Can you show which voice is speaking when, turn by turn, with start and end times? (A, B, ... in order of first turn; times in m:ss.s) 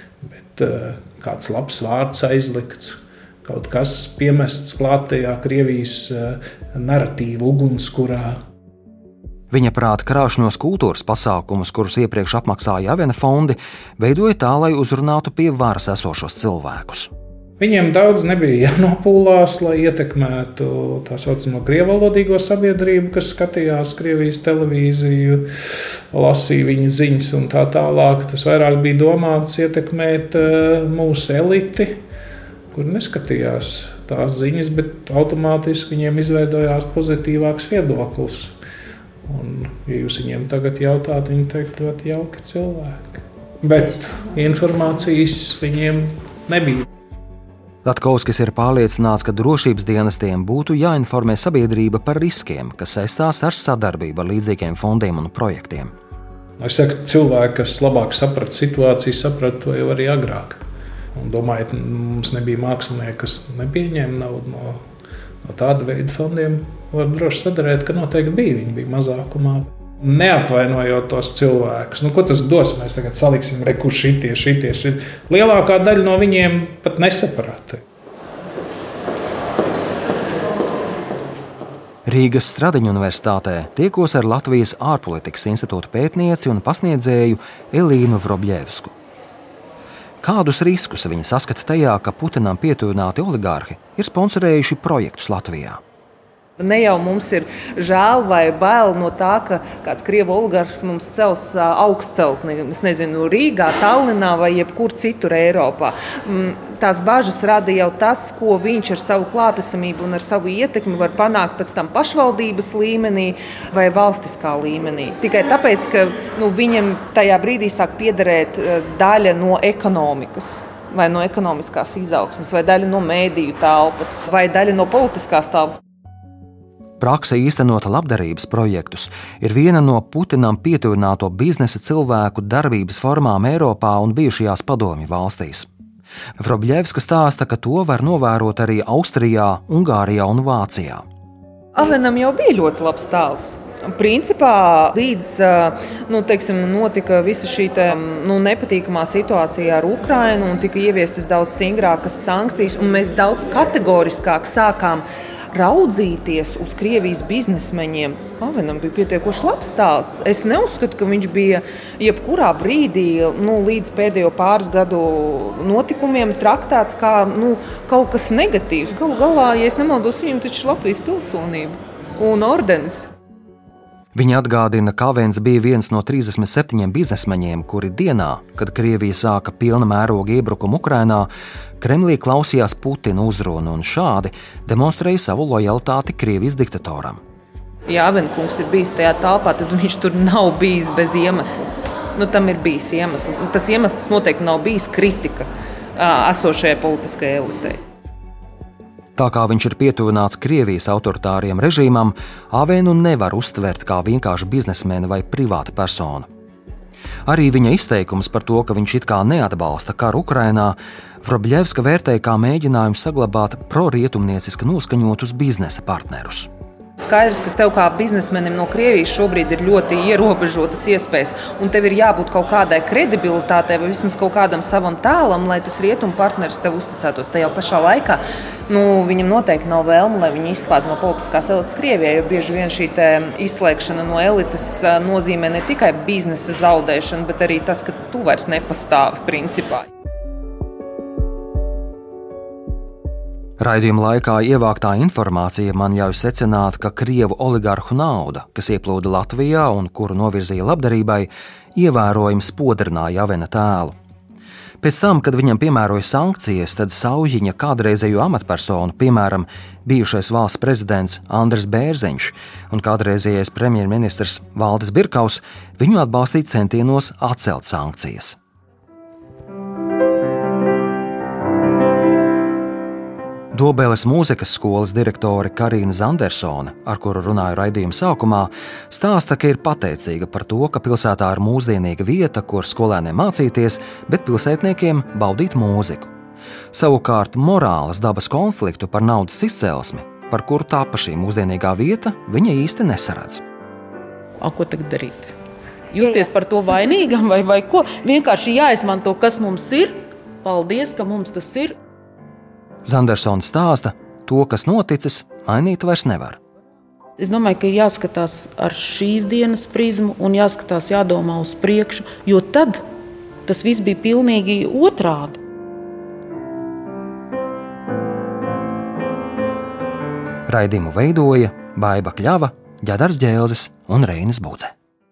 0:00.4-0:08.4 A
0:09.5-0:17.1 B
0:17.6-0:25.5 A
0:26.1-0:32.0 A
0:32.7-0:38.6 A
0:39.3-0:46.9 A
0:47.8-0:55.9 B
0:56.6-1:00.6 A
1:01.2-1:04.8 A
1:05.4-1:17.8 A
1:22.1-1:28.9 B
1:30.2-1:35.8 B
1:36.6-2:05.8 C
2:07.0-2:15.7 B
2:16.4-2:21.0 B
2:21.8-2:53.1 C
2:54.2-3:01.3 B
3:01.8-3:07.2 B
3:07.9-3:17.8 C
3:19.2-3:26.3 B
3:27.3-3:36.5 B
3:37.0-3:59.9 C
4:03.6-4:14.0 B
4:14.8-4:28.4 B
4:33.5-4:46.1 B
4:46.7-4:53.4 B
4:54.4-4:55.4 D
4:55.9-5:01.8 D
5:02.8-5:06.4 B
5:07.2-5:12.8 D
5:13.5-5:15.4 D
5:20.5-5:24.7 B